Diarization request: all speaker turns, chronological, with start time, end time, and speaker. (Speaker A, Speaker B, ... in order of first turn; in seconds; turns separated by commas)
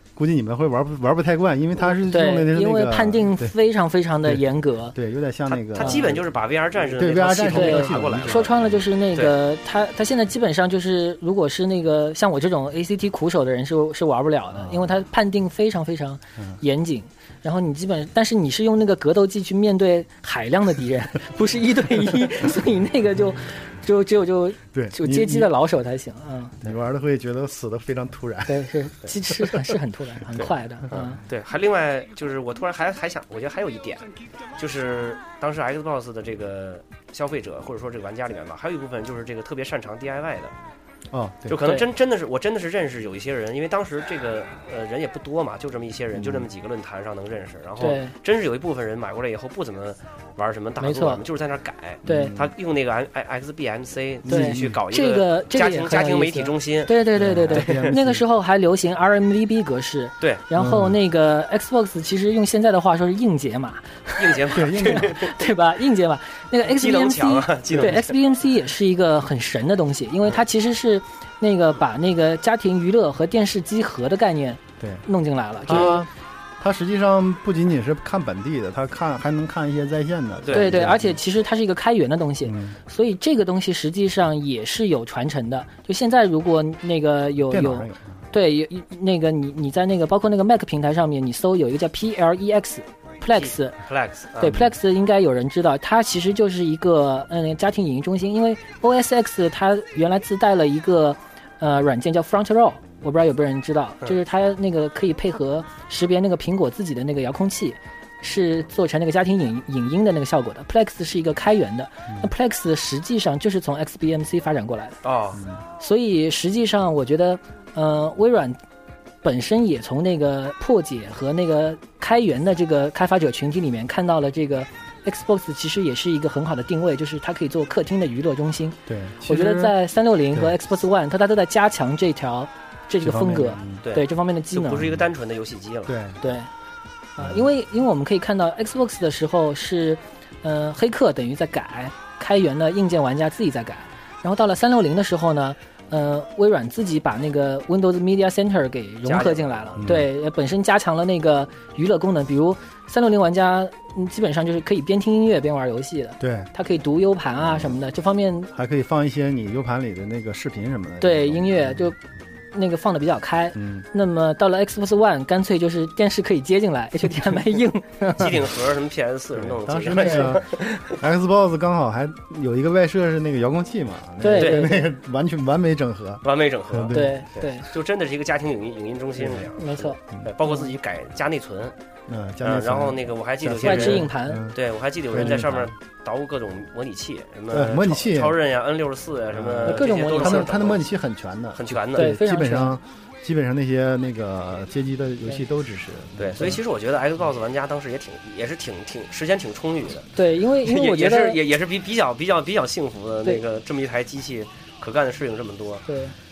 Speaker A: 0.2-3.5, Speaker B: 1.9-5.0, Speaker A: 4.9-6.3, Speaker C: 5.5-8.6, Speaker B: 5.8-6.1, Speaker A: 6.9-8.8, Speaker B: 7.5-26.6, Speaker A: 14.5-15.0, Speaker A: 24.7-25.5, Speaker A: 26.6-28.7, Speaker B: 28.5-31.2, Speaker C: 30.4-34.1, Speaker C: 34.6-40.5, Speaker A: 41.1-41.6, Speaker C: 41.5-57.9, Speaker B: 41.6-41.9, Speaker A: 46.1-46.5, Speaker B: 47.8-48.1, Speaker B: 50.8-51.2, Speaker A: 52.0-52.5, Speaker B: 52.1-52.3, Speaker A: 54.2-54.8, Speaker B: 54.3-76.0, Speaker A: 57.2-58.2, Speaker A: 60.6-61.0, Speaker C: 64.2-65.5, Speaker A: 64.5-65.2, Speaker C: 66.7-68.1, Speaker A: 67.7-68.0, Speaker A: 75.7-76.1, Speaker A: 76.6-81.2, Speaker C: 80.4-80.8, Speaker B: 80.5-93.8, Speaker A: 82.4-82.8, Speaker A: 87.5-88.1, Speaker C: 93.3-94.6, Speaker B: 94.4-115.0, Speaker A: 94.4-94.7, Speaker C: 115.0-115.4, Speaker A: 115.4-115.6, Speaker B: 115.8-118.6, Speaker B: 119.2-134.9, Speaker A: 128.9-129.8, Speaker A: 133.0-133.8, Speaker C: 133.8-135.9, Speaker A: 135.9-136.2, Speaker B: 136.2-136.5, Speaker B: 137.2-158.5, Speaker A: 137.2-137.5, Speaker C: 149.1-149.8, Speaker A: 149.8-150.1, Speaker A: 156.2-156.5, Speaker A: 157.4-157.8, Speaker A: 158.5-161.9, Speaker B: 161.0-162.0, Speaker B: 162.5-168.3, Speaker A: 163.6-163.9, Speaker C: 168.2-171.0, Speaker A: 169.4-177.2, Speaker B: 169.9-170.3, Speaker B: 174.2-174.8, Speaker C: 174.4-174.7, Speaker C: 176.2-181.8, Speaker B: 176.9-177.7, Speaker A: 179.2-179.5, Speaker B: 179.6-180.7, Speaker A: 182.1-184.6, Speaker C: 182.4-190.9, Speaker B: 183.6-184.4, Speaker A: 185.1-185.7, Speaker A: 187.5-188.4, Speaker A: 189.3-196.6, Speaker B: 189.7-190.5, Speaker C: 191.6-192.1, Speaker B: 192.0-192.8, Speaker C: 196.2-200.1, Speaker B: 200.2-201.4, Speaker C: 200.6-205.8, Speaker B: 205.9-206.1